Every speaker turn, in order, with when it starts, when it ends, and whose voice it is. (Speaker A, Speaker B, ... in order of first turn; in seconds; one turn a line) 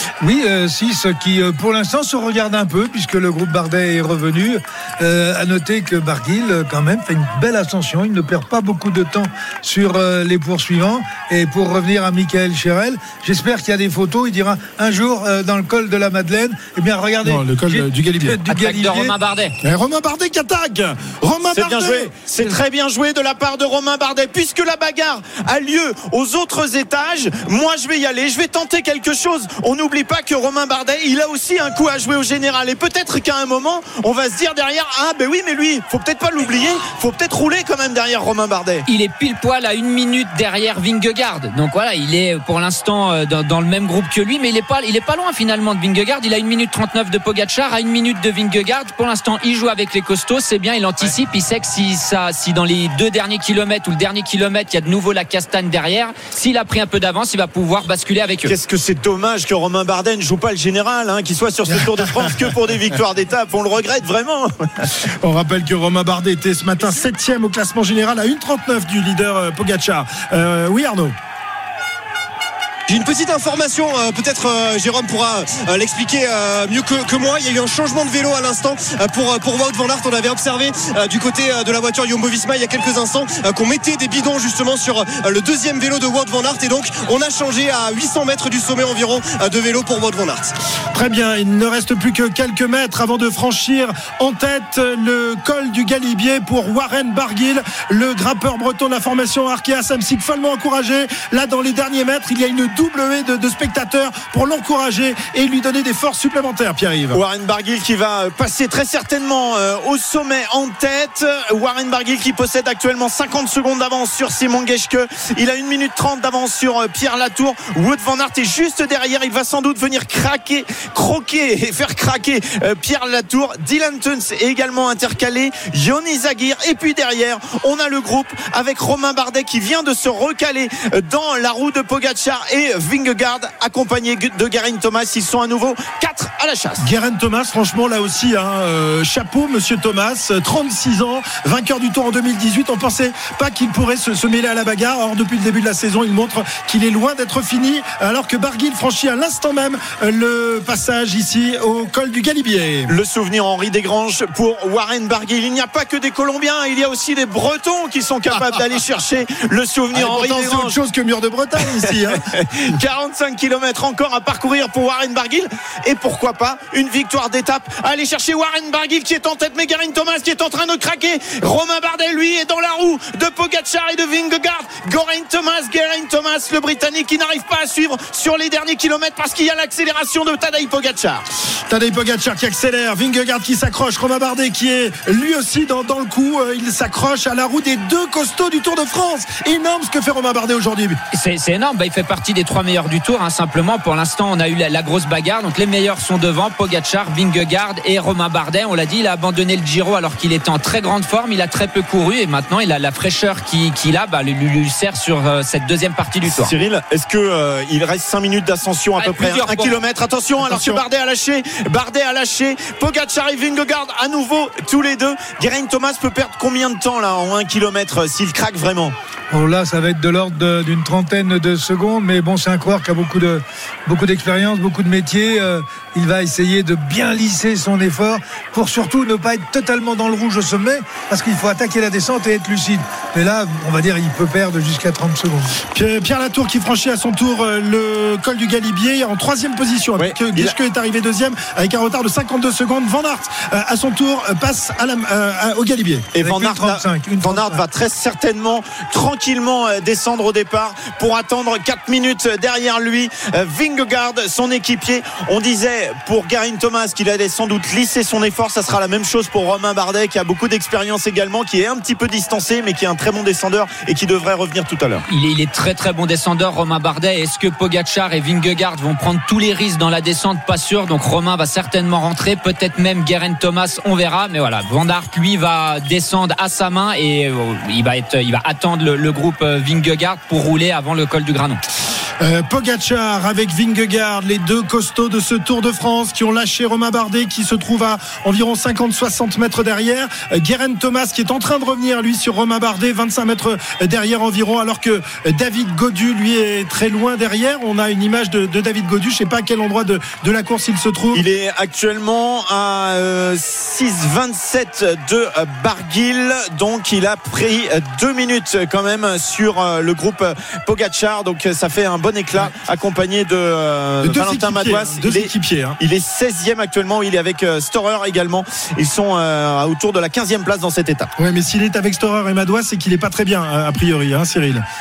Speaker A: 0.2-19.1
Speaker B: 17.2-18.4
Speaker C: 18.5-19.6
Speaker B: 19.6-22.1
Speaker D: 21.5-38.9
Speaker C: 38.9-58.5
Speaker D: 58.5-65.0
Speaker B: 65.0-71.2
Speaker E: 72.9-90.5
Speaker B: 90.9-107.2
Speaker D: 107.1-136.9
Speaker B: 136.8-152.9
Speaker D: 152.9-160.8
Speaker B: 159.9-162.2
Speaker D: 161.7-181.2
Speaker B: 181.7-191.0
Speaker C: 191.1-206.5
Speaker D: 206.4-218.9
Speaker C: 209.0-209.8
Speaker B: 210.5-210.8
Speaker A: 219.3-235.6
Speaker B: 235.7-246.1
Speaker D: 240.0-240.6
Speaker D: 246.1-265.1
Speaker A: 246.2-247.6
Speaker C: 265.1-281.6
Speaker B: 282.2-301.2
Speaker D: 301.1-321.1
Speaker B: 314.0-315.8
Speaker B: 321.2-324.6